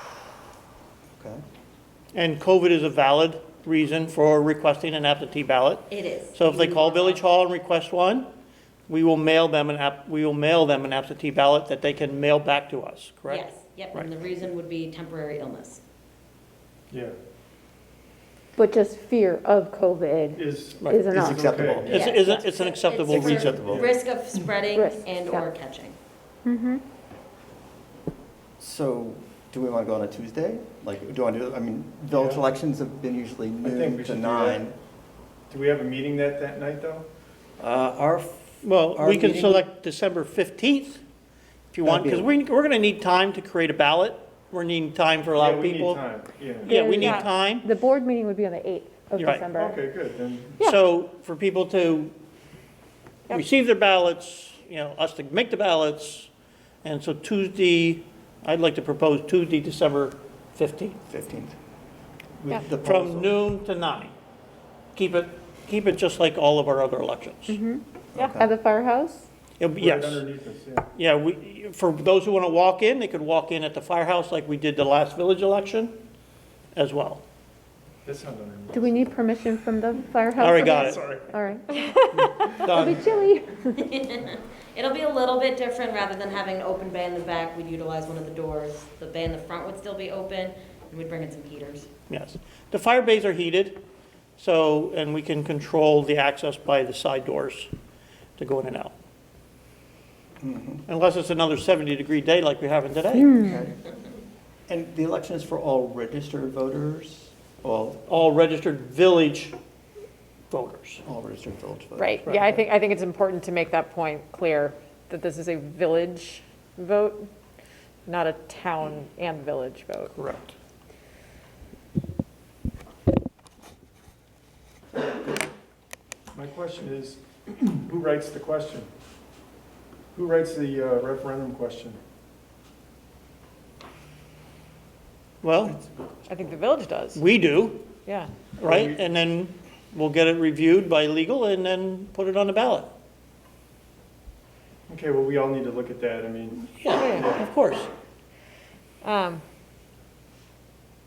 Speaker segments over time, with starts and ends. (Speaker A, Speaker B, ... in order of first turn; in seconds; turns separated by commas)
Speaker A: 2.1-8.3, Speaker B: 5.9-7.2, Speaker A: 8.9-14.1, Speaker B: 13.3-15.8, Speaker C: 18.6-21.4, Speaker D: 20.4-22.1, Speaker A: 20.8-21.1, Speaker E: 21.1-22.0, Speaker A: 21.9-23.8, Speaker B: 21.9-25.9, Speaker D: 23.2-23.9, Speaker C: 24.7-25.4, Speaker C: 26.4-26.8, Speaker E: 28.6-34.7, Speaker D: 32.1-32.4, Speaker D: 33.6-34.6, Speaker D: 35.5-37.0, Speaker E: 37.6-39.6, Speaker A: 38.6-41.0, Speaker A: 41.7-46.0, Speaker E: 41.8-42.3, Speaker D: 45.3-47.2, Speaker A: 46.6-47.7, Speaker C: 46.6-49.8, Speaker A: 49.1-49.5, Speaker D: 49.5-50.7, Speaker A: 50.6-52.1, Speaker A: 53.3-56.3, Speaker A: 56.8-61.0, Speaker E: 61.1-61.5, Speaker E: 62.4-63.4, Speaker A: 62.8-64.1, Speaker A: 64.9-67.6, Speaker C: 67.5-69.2, Speaker E: 68.1-68.5, Speaker A: 69.6-70.3, Speaker D: 69.8-70.9, Speaker A: 70.9-76.0, Speaker A: 76.7-77.2, Speaker D: 78.0-79.1, Speaker C: 78.7-83.8, Speaker A: 80.4-81.1, Speaker D: 80.8-81.2, Speaker F: 81.7-82.6, Speaker A: 82.6-83.0, Speaker B: 83.8-91.9, Speaker A: 92.1-93.8, Speaker A: 94.4-97.7, Speaker A: 98.4-98.9, Speaker E: 100.4-100.8, Speaker A: 100.9-103.4, Speaker E: 103.4-103.8, Speaker E: 104.7-108.0, Speaker A: 108.1-109.5, Speaker A: 110.5-111.0, Speaker E: 111.0-112.6, Speaker F: 112.0-117.3, Speaker F: 118.1-120.1, Speaker A: 120.1-120.5, Speaker D: 126.3-128.9, Speaker D: 130.1-132.0, Speaker A: 135.4-135.8, Speaker F: 136.3-137.2, Speaker A: 137.1-137.9, Speaker F: 138.0-138.4, Speaker A: 138.6-142.9, Speaker D: 138.6-139.0, Speaker D: 144.9-147.4, Speaker A: 146.8-147.9, Speaker F: 146.9-147.3, Speaker F: 149.0-149.4